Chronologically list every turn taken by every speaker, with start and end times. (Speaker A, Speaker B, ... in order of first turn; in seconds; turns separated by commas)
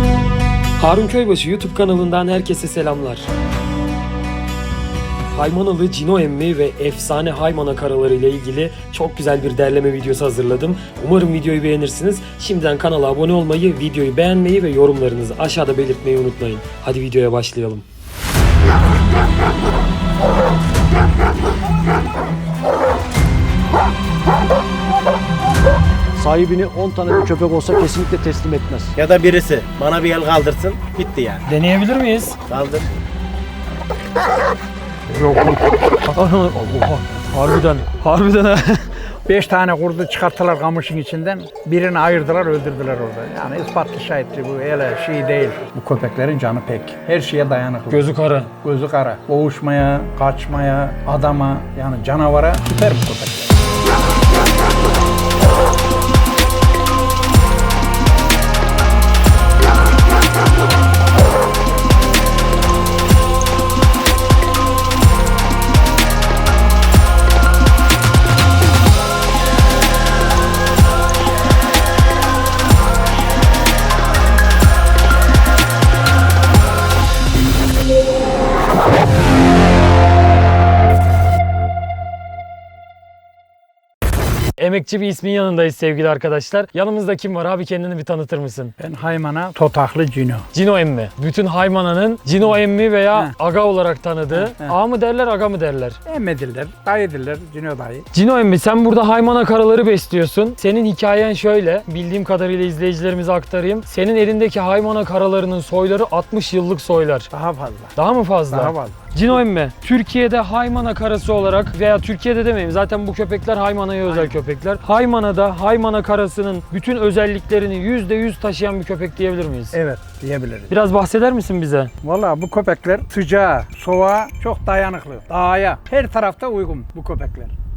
Speaker A: 0.8-3.3, Speaker A: 5.3-17.8, Speaker B: 26.2-28.9, Speaker C: 28.9-31.4, Speaker A: 31.4-32.4, Speaker C: 32.5-32.9, Speaker A: 35.1-38.9, Speaker D: 39.2-48.1, Speaker A: 47.9-48.5, Speaker D: 48.6-53.5, Speaker A: 84.6-88.7, Speaker D: 88.8-90.4, Speaker A: 90.5-96.0, Speaker D: 94.3-94.8, Speaker D: 96.0-98.0, Speaker A: 98.1-107.3, Speaker D: 107.3-108.0, Speaker A: 108.0-119.8, Speaker D: 108.5-109.4, Speaker D: 114.0-114.4, Speaker D: 119.7-120.7, Speaker A: 120.7-121.9, Speaker D: 122.0-127.5